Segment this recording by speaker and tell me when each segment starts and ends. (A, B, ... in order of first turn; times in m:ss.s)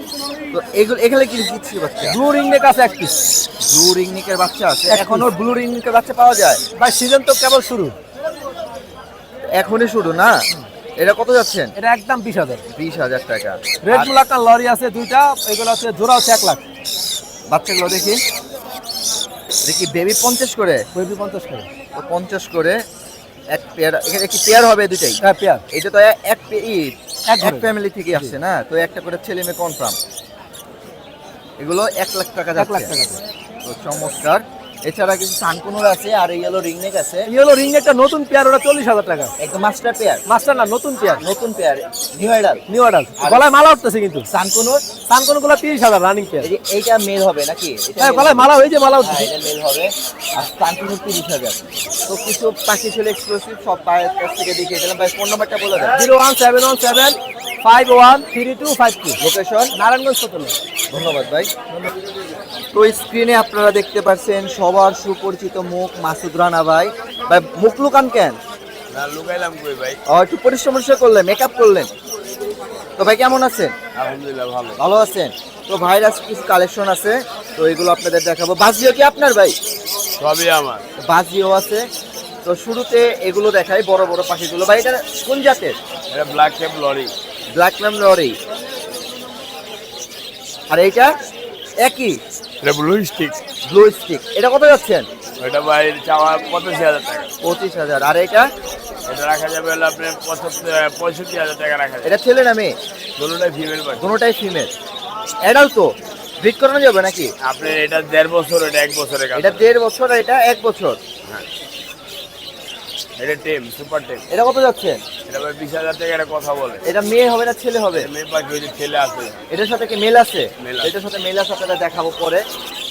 0:00.5-0:02.2 A
0:02.1-0:03.0 B
0:03.6-0:06.6 A
0:04.9-0:05.2 B
0:06.8-0:08.0 C
0:06.8-0:07.6 B
0:09.6-0:10.4 A
0:11.0-0:11.7 A
0:11.8-0:12.4 B
0:12.7-0:14.1 A
0:13.8-0:16.5 B
0:14.5-0:16.6 C
0:17.5-0:18.2 A
0:19.6-0:20.8 A
0:21.0-0:21.5 B
0:21.3-0:21.6 C
0:22.0-0:22.8 A
0:23.5-0:25.2 A
0:25.2-0:25.6 B
0:25.3-0:25.6 C
0:25.7-0:30.0 A
0:27.3-0:27.6 B
0:31.6-0:33.0 A
0:32.6-0:33.1 B
0:33.6-0:37.3 A
0:37.3-0:39.3 C
0:37.4-0:38.8 B
0:39.4-0:40.2 A
0:40.3-0:40.6 B
0:40.4-0:41.2 C
0:41.2-0:42.6 A
0:42.7-0:44.2 C
0:42.8-0:43.3 B
0:43.2-0:43.5 A
0:44.3-0:44.9 A
0:45.1-0:46.4 C
0:46.4-0:56.1 A
0:48.0-0:48.7 B
0:48.6-0:49.1 C
0:56.0-0:59.2 C
0:59.2-0:59.7 A
0:59.8-1:00.6 C
1:00.9-1:01.5 A
1:02.7-1:08.4 A
1:08.9-1:10.0 D
1:10.1-1:11.9 A
1:13.0-1:13.8 A
1:14.0-1:14.8 D
1:14.8-1:19.6 A
1:20.2-1:20.8 D
1:21.0-1:21.8 A
1:22.4-1:25.8 A
1:26.1-1:27.1 D
1:27.5-1:28.4 A
1:30.7-1:31.1 A
1:31.8-1:32.2 A
1:32.6-1:33.4 D
1:33.7-1:35.1 A
1:35.4-1:37.3 D
1:37.4-1:38.5 A
1:39.1-1:42.1 D
1:42.0-1:42.8 A
1:43.2-1:44.1 D
1:44.0-1:44.7 A
1:45.4-1:47.3 A
1:47.5-1:49.7 D
1:49.3-1:51.0 A
1:53.2-1:54.2 D
1:54.3-1:55.0 A
1:55.3-1:56.8 D
1:56.8-1:58.1 A
1:57.9-1:59.4 D
1:59.5-2:02.4 A
2:00.6-2:00.9 D